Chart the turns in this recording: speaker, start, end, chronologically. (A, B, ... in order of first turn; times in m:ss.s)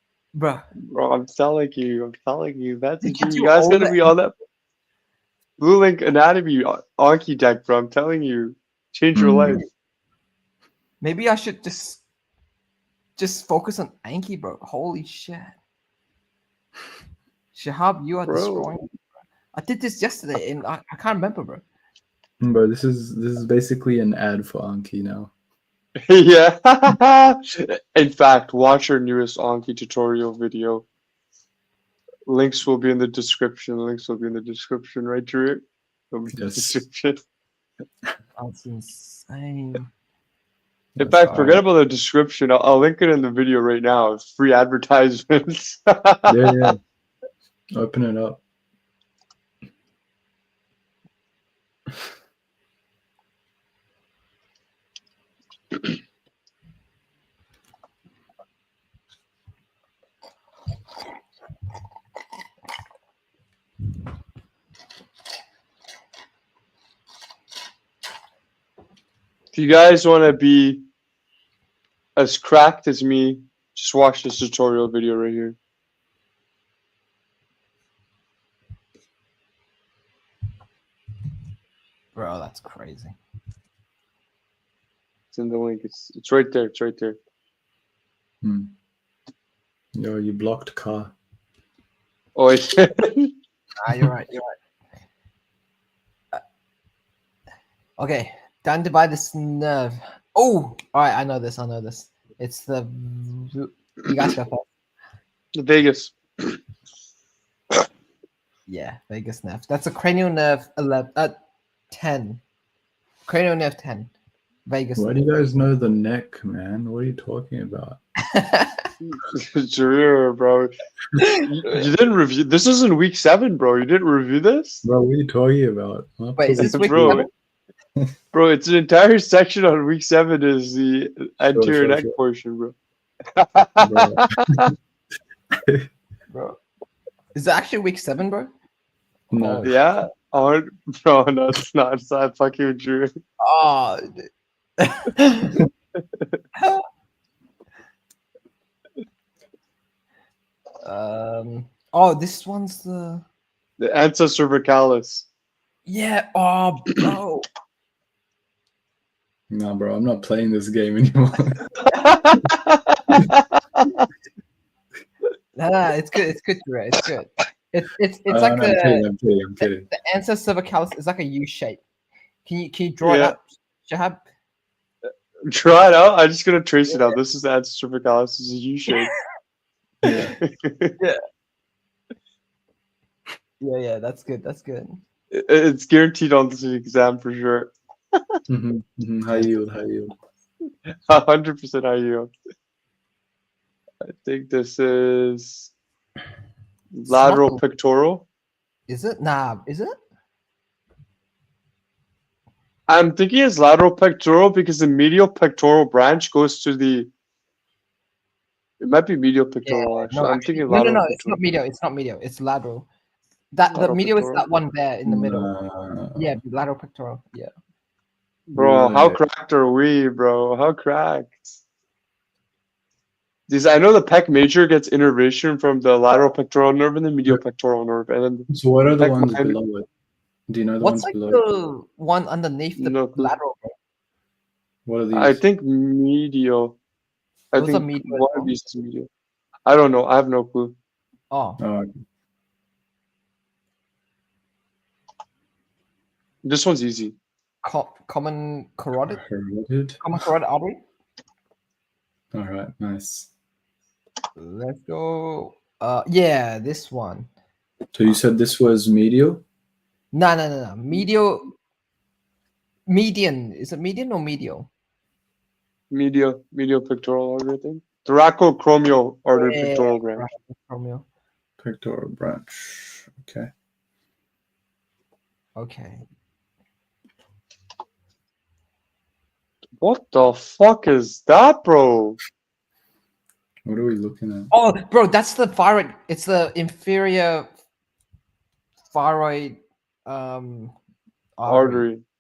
0:00.4-0:00.6 A
0:00.9-0:04.3 B
0:03.0-0:04.1 A
0:05.6-0:09.6 B
0:09.1-0:09.6 C
0:11.0-0:12.0 A
0:13.2-0:15.6 A
0:17.5-0:18.9 A
0:18.3-0:18.7 B
0:19.5-0:21.6 A
0:22.4-0:25.3 C
0:26.1-0:30.9 B
0:32.3-0:37.2 B
0:36.3-0:36.8 C
0:38.4-0:39.9 A
0:41.0-0:46.8 B
0:41.0-0:41.6 C
0:41.0-0:41.6 A
0:46.3-0:46.8 C
0:47.8-0:48.4 C
1:09.5-1:10.8 B
1:12.2-1:15.6 B
1:22.2-1:23.2 A
1:25.3-1:27.2 B
1:28.4-1:28.7 C
1:30.0-1:31.1 C
1:32.4-1:33.3 B
1:33.8-1:34.6 A
1:38.0-1:44.7 A
1:45.6-1:46.6 B
1:48.7-1:51.4 A
1:51.9-1:52.4 A
1:53.3-1:54.1 A
1:54.7-1:55.3 A
1:55.0-1:58.0 C
1:58.3-1:58.9 A
1:59.1-2:00.7 B
2:01.2-2:01.5 A
2:01.4-2:04.8 B
2:04.8-2:07.2 C
2:06.4-2:07.3 A
2:06.5-2:07.3 B
2:08.3-2:12.8 B
2:11.5-2:12.2 C
2:13.4-2:14.7 B
2:13.8-2:14.7 C
2:16.3-2:16.6 A
2:17.3-2:18.5 A
2:19.3-2:19.7 C
2:19.4-2:19.8 A
2:19.6-2:23.1 B
2:23.4-2:24.3 A
2:24.8-2:25.6 A
2:26.6-2:26.8 A
2:30.8-2:33.2 A
2:33.8-2:35.3 B
2:35.9-2:37.5 A
2:39.5-2:41.6 C
2:41.9-2:44.1 B
2:45.6-2:49.1 A
2:48.3-2:49.9 C
2:49.6-2:51.8 A
2:52.4-2:54.2 A
2:53.0-2:53.4 B
2:55.5-2:59.1 B
3:00.0-3:00.3 C
3:00.4-3:00.9 B
3:03.6-3:05.0 A
3:05.3-3:08.4 B
3:08.5-3:10.1 C
3:10.9-3:12.3 B
3:14.0-3:15.7 B
3:17.0-3:18.3 B
3:17.1-3:17.6 A
3:18.9-3:20.0 A
3:22.9-3:27.1 B
3:28.8-3:31.5 B
3:29.6-3:32.9 A
3:33.5-3:35.6 A
3:33.7-3:34.5 B
3:35.1-3:36.4 C
3:36.2-3:37.5 A
3:38.5-3:41.5 B
3:38.6-3:39.2 C
3:43.5-3:49.6 B
3:48.5-3:49.9 C
3:50.5-3:51.4 C
3:50.8-3:53.7 A
3:52.8-3:53.4 B
3:54.9-3:55.4 C
3:55.1-3:56.8 B
3:57.5-3:59.1 B
3:57.5-3:58.5 A
3:59.7-4:00.8 B
4:01.3-4:01.6 A
4:01.6-4:01.9 C
4:06.4-4:07.2 B
4:07.6-4:09.2 A
4:09.0-4:10.0 C
4:10.0-4:10.8 A
4:12.3-4:13.3 C
4:14.4-4:17.3 A
4:17.9-4:19.4 C
4:20.1-4:21.5 A
4:22.9-4:24.7 A
4:25.9-4:30.2 B
4:29.4-4:31.0 A
4:31.6-4:33.5 C
4:35.6-4:36.0 A
4:39.8-4:42.2 B
4:43.7-4:44.5 C
4:44.5-4:47.5 A
4:48.9-4:50.8 A
4:51.4-4:51.9 A
4:51.5-4:52.0 B